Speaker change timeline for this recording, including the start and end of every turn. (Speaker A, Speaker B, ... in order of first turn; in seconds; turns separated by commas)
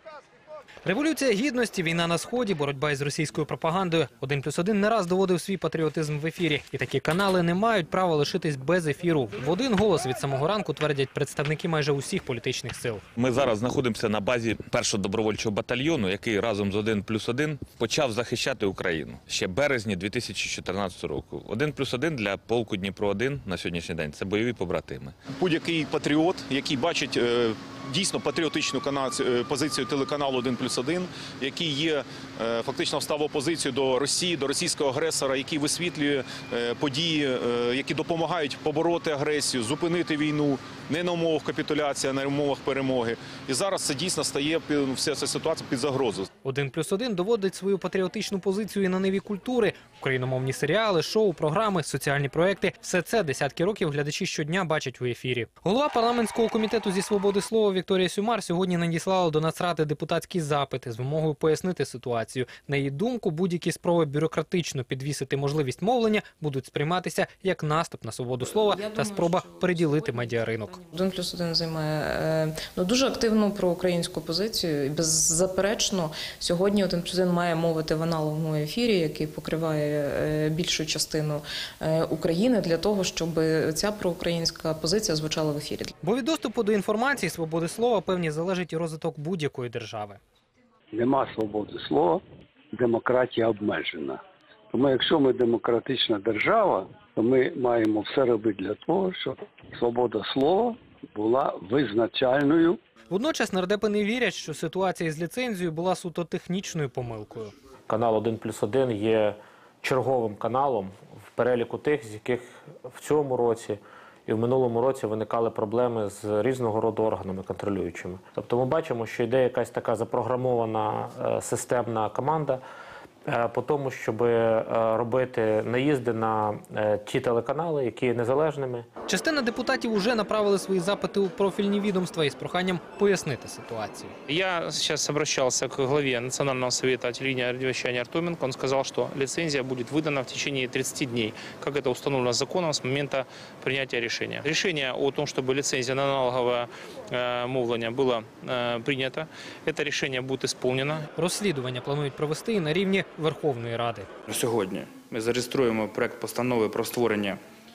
Speaker A: 0.8-13.0, Speaker B: 13.2-25.1, Speaker C: 25.3-46.3, Speaker A: 46.4-70.8, Speaker D: 68.5-85.9, Speaker A: 86.0-90.2, Speaker E: 90.9-102.8, Speaker A: 103.1-107.5, Speaker F: 107.9-122.6, Speaker F: 123.3-128.9, Speaker A: 129.1-134.1, Speaker G: 134.3-151.0, Speaker A: 151.2-154.1, Speaker H: 154.3-157.4